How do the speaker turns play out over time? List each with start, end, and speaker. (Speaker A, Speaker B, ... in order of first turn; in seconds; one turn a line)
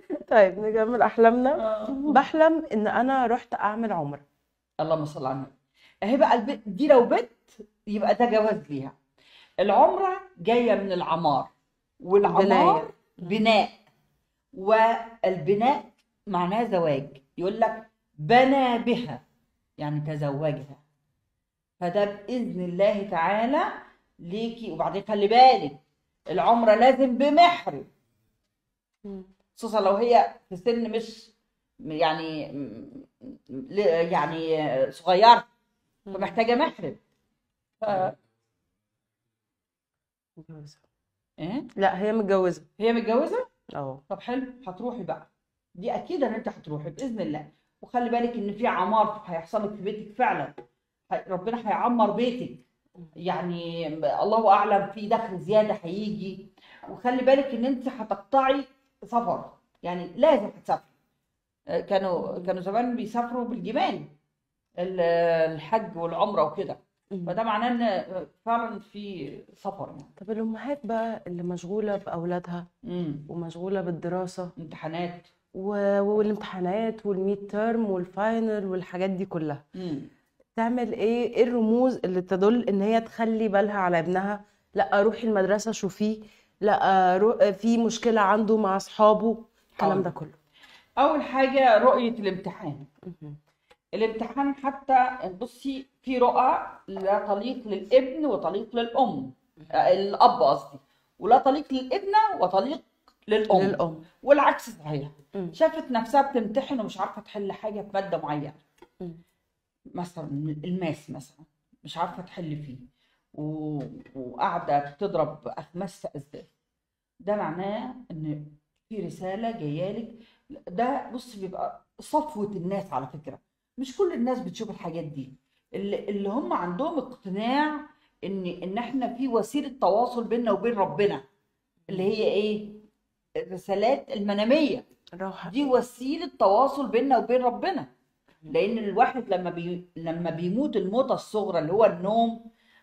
Speaker A: 0.3-4.2
Speaker B: 1.6-2.2
Speaker B: 4.8-8.9
Speaker B: 9.6-11.5
Speaker B: 12.0-13.8
Speaker A: 12.2-12.9
Speaker B: 14.5-19.2
Speaker B: 19.8-20.8
Speaker B: 21.8-23.7
Speaker B: 24.3-25.8
Speaker B: 26.3-27.9
Speaker B: 29.6-31.3
Speaker B: 31.9-35.5
Speaker A: 36.1-36.4
Speaker B: 36.1-37.0
Speaker B: 37.8-38.1
Speaker A: 40.4-40.8
Speaker B: 41.4-41.7
Speaker A: 41.8-42.6
Speaker B: 42.8-43.4
Speaker A: 43.7-44.0
Speaker B: 44.1-50.5
Speaker B: 51.1-52.6
Speaker B: 53.1-53.6
Speaker B: 54.2-60.9
Speaker B: 61.7-64.1
Speaker A: 62.2-62.5
Speaker B: 64.8-70.1
Speaker A: 70.2-72.7
Speaker B: 72.8-73.3
Speaker A: 73.3-74.5
Speaker B: 74.6-75.3
Speaker A: 75.5-79.6
Speaker B: 79.7-80.1
Speaker A: 80.5-90.3
Speaker B: 89.8-90.1
Speaker B: 91.0-92.9
Speaker A: 93.0-93.4
Speaker B: 93.9-108.6
Speaker A: 103.5-104.0
Speaker B: 110.0-112.8
Speaker B: 113.3-116.5
Speaker B: 117.2-131.2
Speaker B: 131.9-132.8
Speaker B: 133.5-134.8
Speaker A: 135.2-135.7
Speaker B: 135.5-137.9
Speaker B: 138.5-142.5